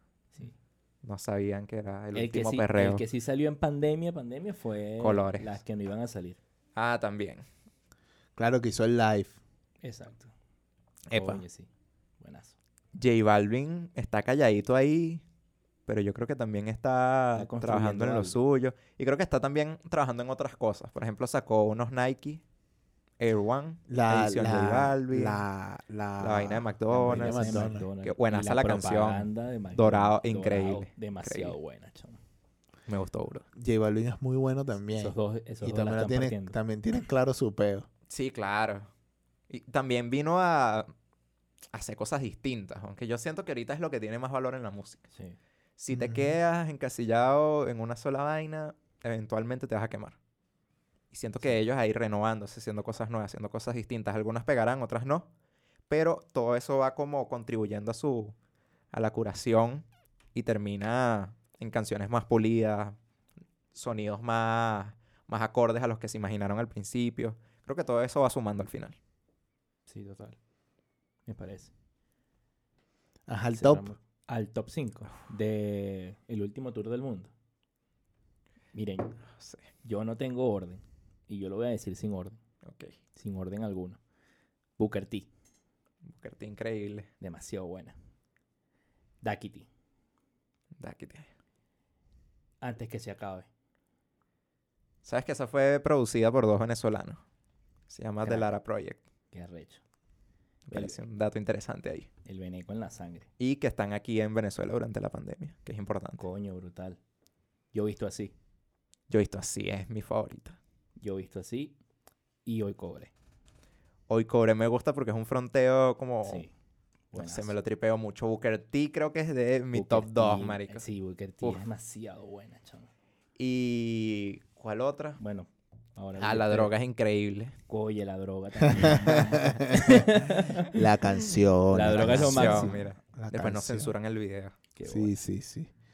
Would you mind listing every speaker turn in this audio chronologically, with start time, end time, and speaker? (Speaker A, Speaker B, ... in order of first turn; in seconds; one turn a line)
Speaker A: 1.0-3.0
Speaker B: 2.1-6.4
Speaker A: 5.0-5.6
Speaker A: 6.8-7.4
Speaker C: 8.4-9.3
Speaker B: 9.8-10.3
Speaker A: 11.1-11.4
Speaker B: 11.1-11.7
Speaker B: 12.2-12.6
Speaker A: 12.9-15.2
Speaker A: 15.9-22.4
Speaker B: 17.4-18.4
Speaker A: 23.2-25.4
Speaker C: 23.9-27.9
Speaker A: 26.2-31.5
Speaker B: 26.9-32.2
Speaker A: 32.9-33.4
Speaker C: 33.5-37.9
Speaker B: 35.0-36.5
Speaker A: 38.1-38.9
Speaker A: 39.5-40.9
Speaker A: 41.7-45.1
Speaker A: 45.8-50.1
Speaker C: 45.9-46.4
Speaker A: 51.1-55.3
Speaker A: 55.9-58.3
Speaker A: 58.9-63.0
Speaker A: 63.7-69.0
Speaker B: 69.9-70.4
Speaker B: 71.3-71.7
Speaker C: 73.3-73.8
Speaker B: 73.5-77.3
Speaker B: 78.7-79.2
Speaker A: 79.4-79.6
Speaker B: 79.8-82.4
Speaker A: 82.6-82.9
Speaker B: 83.1-84.0
Speaker B: 84.8-85.3
Speaker A: 86.0-87.1
Speaker B: 87.2-87.9
Speaker B: 89.2-89.7
Speaker A: 90.8-91.3
Speaker B: 92.6-93.5
Speaker A: 95.0-97.2
Speaker A: 97.9-99.0
Speaker B: 99.3-99.8
Speaker A: 100.7-102.1
Speaker B: 100.7-101.0
Speaker B: 102.2-103.3
Speaker A: 103.4-106.2
Speaker B: 106.2-107.0
Speaker B: 107.7-108.3
Speaker A: 109.1-110.6
Speaker B: 111.0-111.8
Speaker B: 112.4-113.1
Speaker A: 114.1-116.5
Speaker B: 116.2-116.5
Speaker B: 117.1-117.5
Speaker A: 117.1-120.8
Speaker B: 119.7-122.9
Speaker A: 123.4-125.2
Speaker B: 125.2-126.7
Speaker A: 126.2-127.5
Speaker B: 127.7-130.7
Speaker C: 128.7-133.9
Speaker A: 129.0-129.6
Speaker B: 131.7-132.8
Speaker A: 131.9-134.6
Speaker B: 134.7-135.2
Speaker C: 134.8-135.7